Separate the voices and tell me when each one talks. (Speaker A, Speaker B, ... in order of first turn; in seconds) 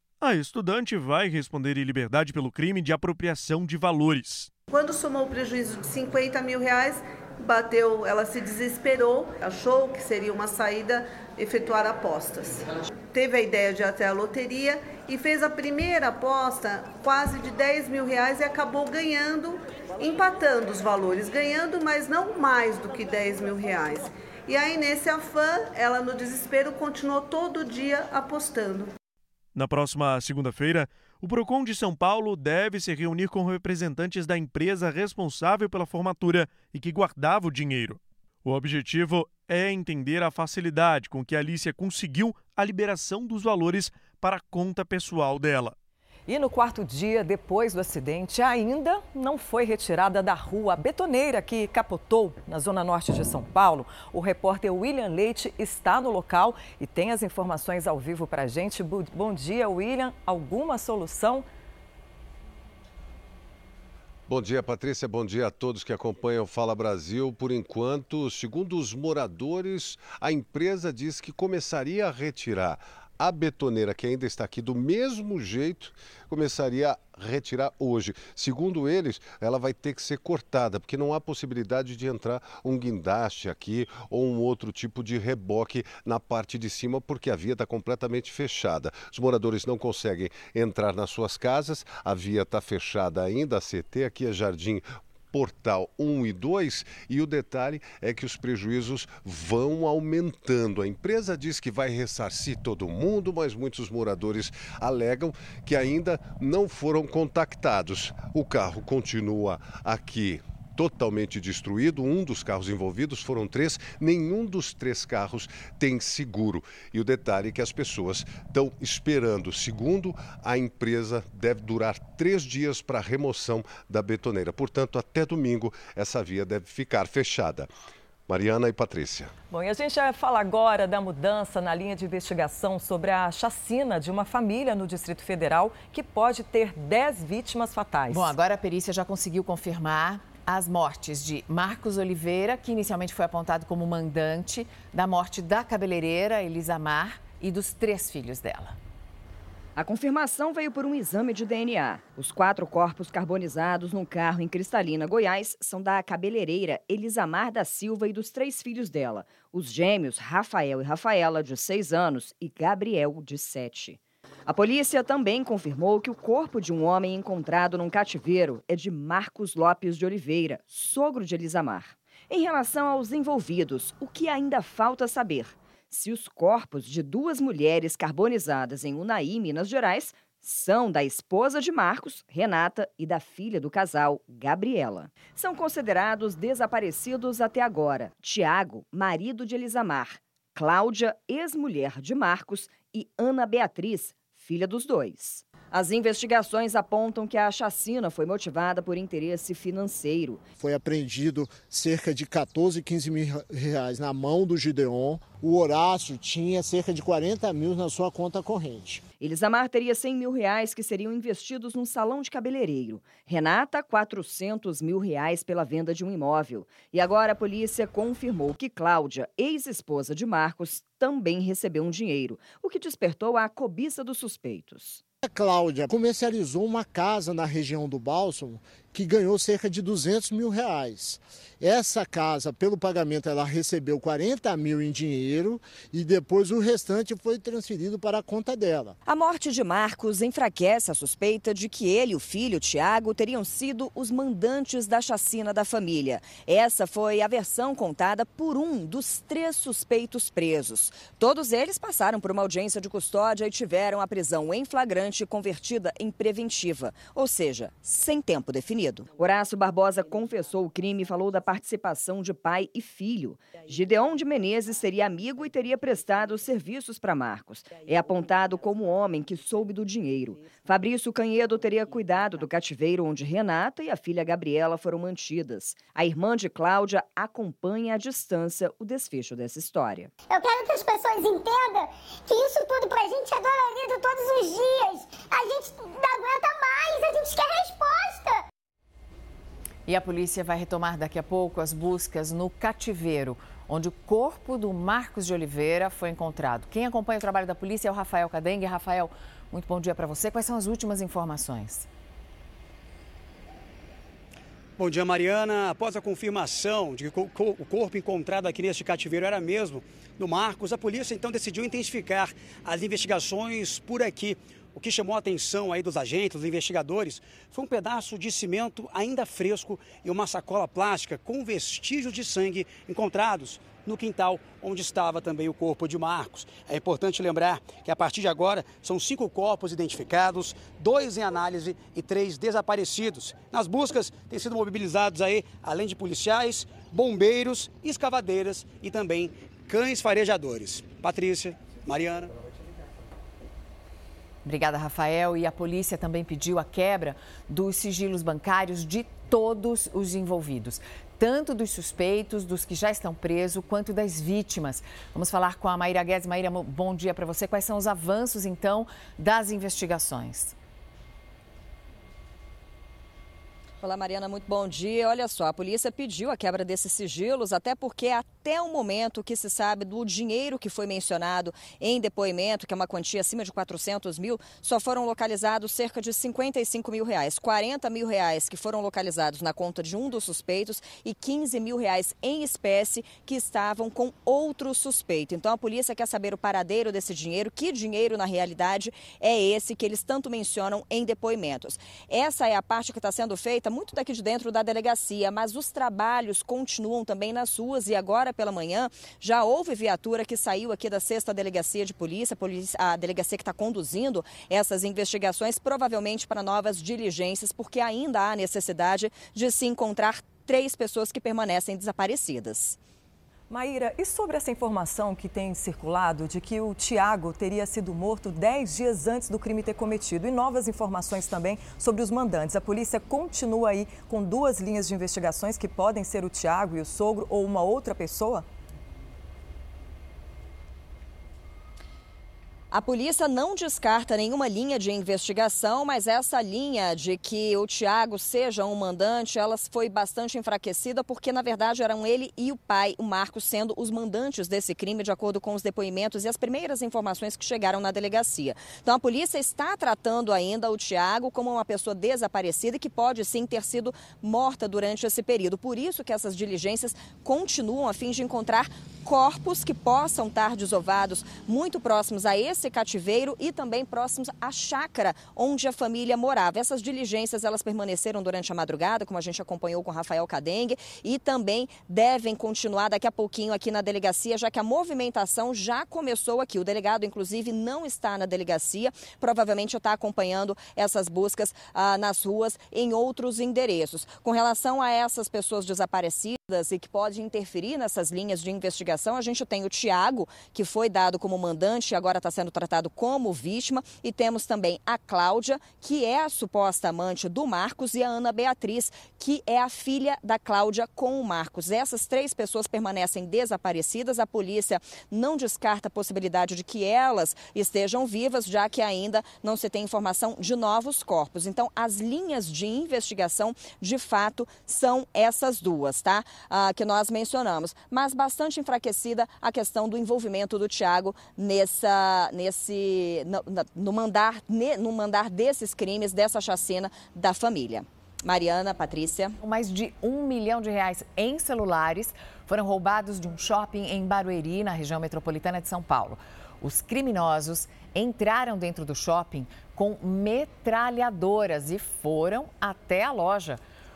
Speaker A: 0.2-4.5, 29.5-45.7
Speaker B: 4.7-28.9
Speaker C: 46.3-61.5, 129.5-138.3, 413.5-428.4
Speaker D: 64.3-127.7, 128.3-129.3
Speaker E: 138.1-148.8, 289.9-301.9, 344.4-360.5, 529.4-543.6
Speaker F: 149.8-200.5, 209.2-225.0, 239.0-280.1, 363.8-412.8, 432.7-529.3
Speaker G: 200.6-209.0, 225.2-238.9
Speaker H: 280.3-288.4
Speaker I: 304.8-342.3